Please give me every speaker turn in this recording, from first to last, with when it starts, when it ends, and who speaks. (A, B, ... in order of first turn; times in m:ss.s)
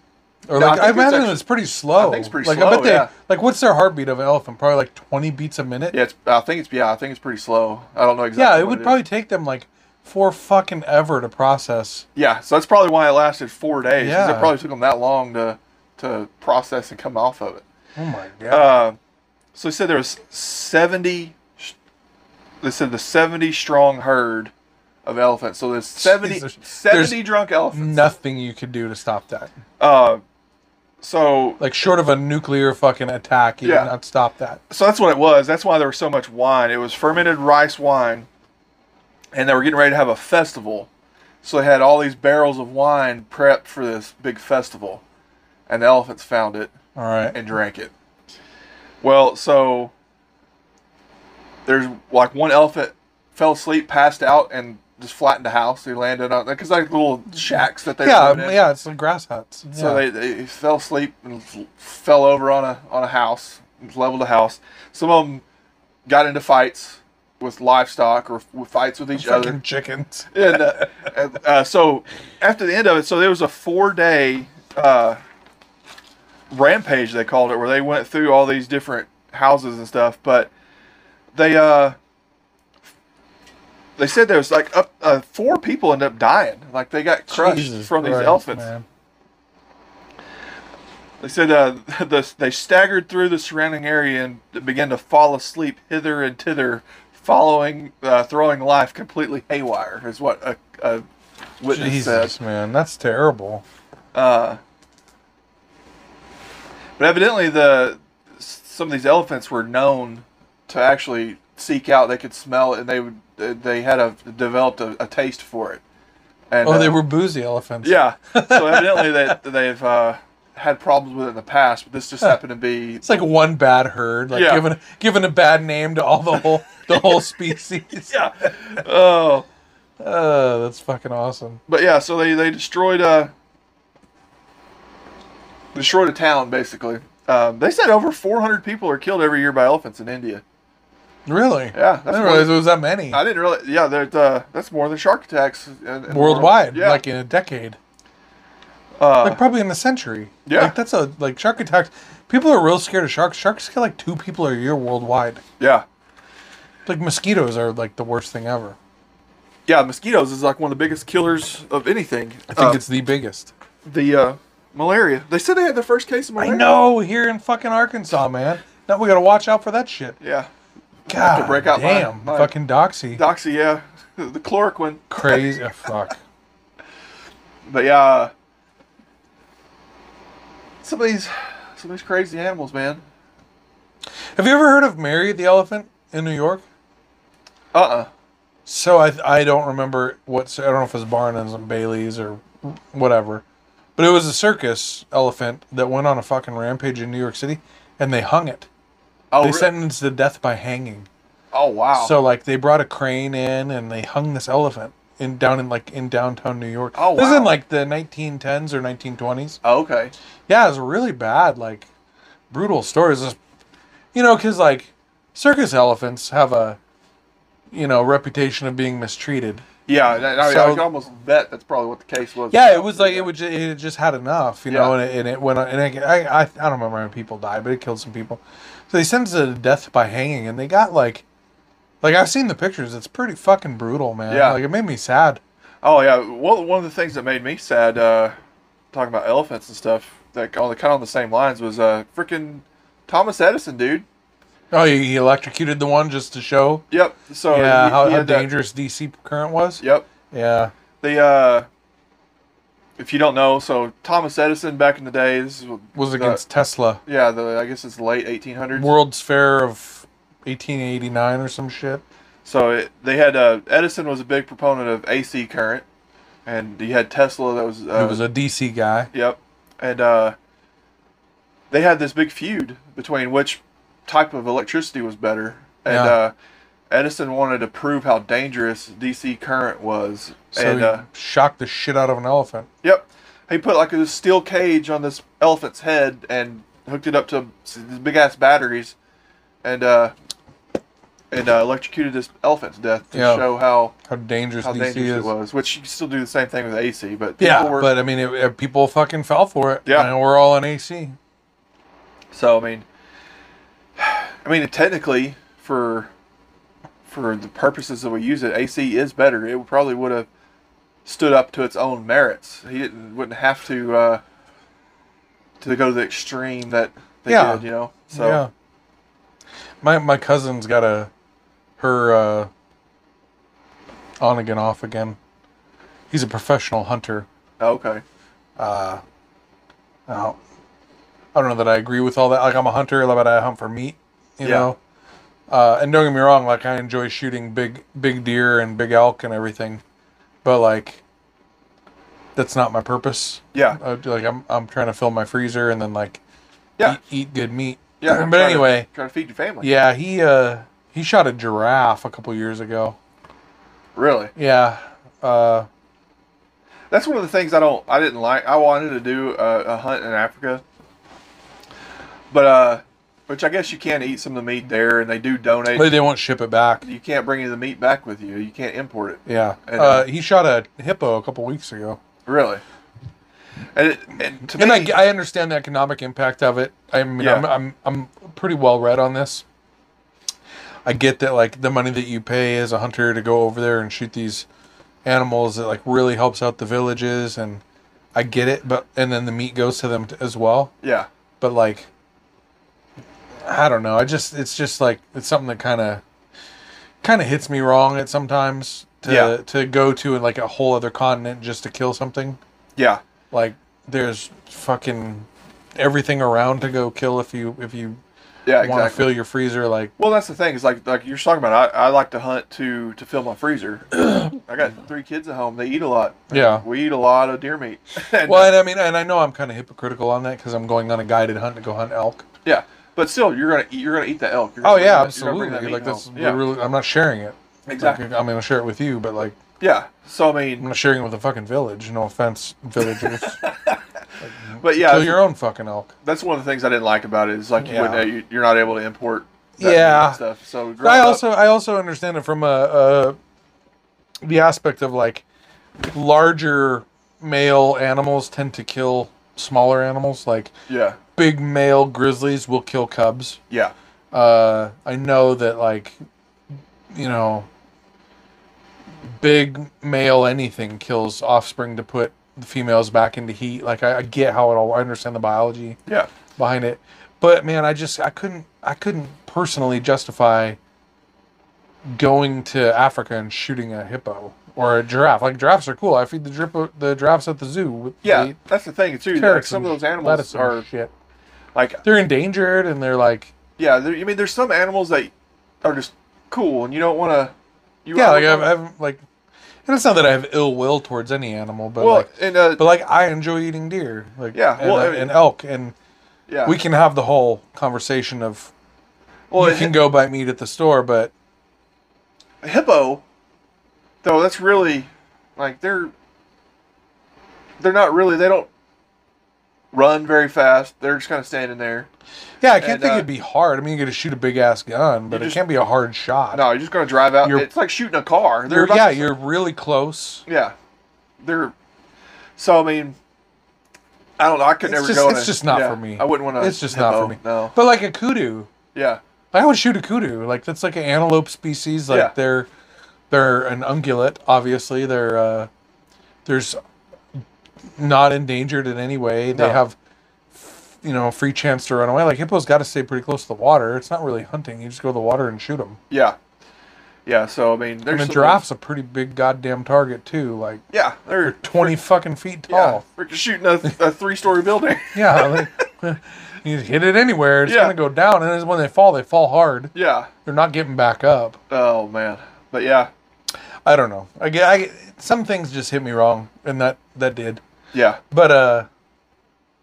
0:00.5-0:06.0 A
0:00.5-0:03.1 B
0:05.9-0:09.0 B
0:08.4-0:12.1 A
0:12.2-0:17.6 B
0:14.0-0:14.6 A
0:18.0-0:18.7 A
0:18.5-0:19.0 B
0:19.5-0:21.8 B
0:22.6-0:24.5 B
0:25.0-0:28.0 B
0:26.0-0:29.5 A
0:29.8-0:30.2 B
0:31.0-0:31.6 B
0:31.6-0:34.6 A
0:33.6-0:33.9 B
0:34.7-0:38.3 B
0:39.3-0:40.9 B
0:41.4-0:45.0 B
0:45.7-0:46.8 B
0:47.0-0:47.4 A
0:47.3-0:47.9 B
0:49.0-0:49.9 B
0:51.7-0:58.6 B
0:58.0-1:00.1 A
0:59.7-1:05.4 B
1:06.0-1:09.6 B
1:09.2-1:10.7 A
1:10.3-1:15.2 B
1:16.5-1:20.5 B
1:21.4-1:22.0 B
1:24.0-1:28.7 B
1:27.3-1:28.8 A
1:31.2-1:41.0 B
1:41.6-1:42.3 B
1:41.7-1:43.6 A
1:44.1-1:44.6 B
1:47.0-1:55.8 B
1:56.5-1:57.0 B
1:56.6-1:59.4 A
1:57.8-2:03.1 B
2:03.0-2:08.5 A
2:04.3-2:04.6 B
2:08.1-2:09.5 B
2:10.0-2:11.6 A
2:11.7-2:13.3 B
2:15.8-2:20.4 B
2:21.2-2:23.2 A
2:21.7-2:22.6 B
2:23.1-2:27.0 B
2:26.1-2:27.8 A
2:29.0-2:29.4 B
2:29.2-2:35.4 A
2:30.5-2:30.8 B
2:35.6-2:35.9 B
2:36.9-2:38.8 A
2:39.7-2:42.8 B
2:42.5-2:43.5 A
2:43.9-2:46.7 B
2:46.4-2:50.2 A
2:50.2-2:50.5 B
2:51.1-2:53.2 A
2:51.1-2:52.5 B
2:53.1-2:55.1 B
2:55.1-2:56.2 A
2:57.7-2:58.3 B
3:00.8-3:03.0 B
3:04.4-3:06.6 A
3:07.7-3:08.1 B
3:08.7-3:13.4 A
3:14.0-3:18.7 A
3:19.3-3:19.7 B
3:19.4-3:21.1 A
3:21.5-3:22.2 B
3:22.0-3:29.6 A
3:27.0-3:27.5 B
3:29.6-3:30.1 B
3:30.5-3:31.9 A
3:32.5-3:33.4 A
3:34.1-3:36.8 A
3:37.7-3:39.6 A
3:39.9-3:43.3 B
3:40.4-3:40.9 A
3:42.5-3:51.2 A
3:44.7-3:45.0 B
3:52.0-3:55.4 A
3:54.3-3:54.6 B
3:55.8-3:58.4 B
3:58.9-4:04.0 B
4:04.7-4:06.8 A
4:06.9-4:08.5 B
4:07.5-4:10.7 A
4:09.8-4:10.1 B
4:11.0-4:11.7 B
4:13.0-4:16.4 B
4:16.0-4:17.0 A
4:17.0-4:18.9 B
4:18.8-4:22.0 A
4:22.4-4:25.8 B
4:26.5-4:28.2 B
4:28.0-4:29.1 A
4:29.1-4:30.4 B
4:31.7-4:36.3 B
4:35.9-4:36.2 A
4:36.9-4:41.0 B
4:40.5-4:42.7 A
4:42.8-4:49.0 B
4:49.6-4:50.1 B
4:51.3-4:54.0 B
4:53.1-4:53.5 A
4:54.0-4:55.3 A
4:54.6-4:57.9 B
4:57.4-5:01.2 A
4:59.8-5:00.1 B
5:02.3-5:02.9 B
5:04.0-5:06.1 B
5:07.0-5:10.3 B
5:11.0-5:14.2 B
5:15.6-5:18.4 B
5:17.3-5:18.5 A
5:19.8-5:21.1 A
5:21.8-5:22.5 A
5:24.2-5:25.2 A
5:26.1-5:27.3 A
5:27.6-5:28.0 B
5:28.6-5:29.0 A
5:30.1-5:30.4 A
5:31.3-5:34.8 A
5:34.4-5:34.7 B
5:35.5-5:39.8 A
5:40.4-5:41.0 A
5:42.4-5:46.2 A
5:43.5-5:43.8 B
5:46.9-5:48.9 A
5:48.0-5:49.7 B
5:49.6-5:53.0 A
5:54.0-5:54.3 B
5:54.4-5:55.7 A
5:56.9-6:00.6 B
6:02.3-6:05.9 B
6:05.7-6:06.8 A
6:06.8-6:10.0 B
6:09.2-6:12.0 A
6:12.2-6:12.6 B
6:13.7-6:15.0 B
6:14.5-6:19.4 A
6:17.2-6:17.5 B
6:20.8-6:24.5 A
6:25.0-6:27.6 A
6:28.2-6:30.7 A
6:30.8-6:31.1 B
6:31.4-6:31.9 A
6:33.4-6:36.0 A
6:37.0-6:42.4 A
6:39.0-6:39.4 B
6:42.8-6:43.0 B
6:43.3-6:48.0 A
6:48.5-6:49.1 B
6:48.6-6:49.9 A
6:50.0-6:58.5 B
6:56.3-6:56.6 A
6:58.2-7:02.2 A
7:02.4-7:06.4 B
7:04.6-7:09.4 A
7:07.7-7:08.0 B
7:09.6-7:10.7 B
7:10.6-7:13.5 A
7:13.0-7:13.8 B
7:14.2-7:15.9 A
7:14.6-7:15.2 B
7:16.0-7:21.2 B
7:17.6-7:18.0 A
7:19.6-7:20.2 A
7:20.8-7:23.2 A
7:24.2-7:25.2 A
7:25.8-7:30.5 A
7:30.7-7:31.0 B
7:31.2-7:33.4 A
7:34.1-7:36.0 A
7:36.9-7:37.5 A
7:39.1-7:45.8 A
7:46.4-7:50.6 A
7:51.9-7:58.4 A
7:58.0-8:00.7 B
7:59.1-8:00.9 A
8:01.5-8:01.8 B
8:01.8-8:03.3 A
8:03.6-8:07.3 B
8:07.8-8:08.5 B
8:07.9-8:09.0 A
8:09.7-8:15.8 A
8:11.8-8:12.7 B
8:14.3-8:15.1 B
8:16.3-8:16.6 B
8:16.5-8:18.5 A
8:19.3-8:19.8 B
8:19.4-8:21.1 A
8:22.4-8:23.0 B
8:24.0-8:25.9 B
8:27.6-8:28.5 B
8:29.7-8:31.9 B
8:32.4-8:36.4 A
8:32.6-8:33.1 B
8:35.1-8:35.4 B
8:36.3-8:39.1 B
8:37.2-8:37.5 A
8:38.5-8:40.2 A
8:40.3-8:40.5 B
8:41.2-8:41.5 B
8:42.4-8:43.0 B
8:44.2-8:47.6 B
8:44.6-8:48.5 A
8:48.7-8:49.0 B
8:49.3-8:52.5 A
8:51.9-8:52.1 B
8:53.1-8:55.5 A
8:56.2-8:56.6 A
8:57.8-8:59.8 A
8:59.3-8:59.6 B
9:00.3-9:05.8 A
9:05.9-9:06.2 B
9:07.0-9:08.4 B
9:07.9-9:10.6 A
9:10.7-9:11.8 B
9:11.2-9:12.8 A
9:12.5-9:15.5 B
9:14.9-9:19.7 A
9:17.4-9:17.8 B
9:19.7-9:20.1 B
9:20.2-9:21.4 A
9:21.5-9:22.9 B
9:23.6-9:27.4 A
9:27.7-9:28.0 B
9:28.1-9:28.7 A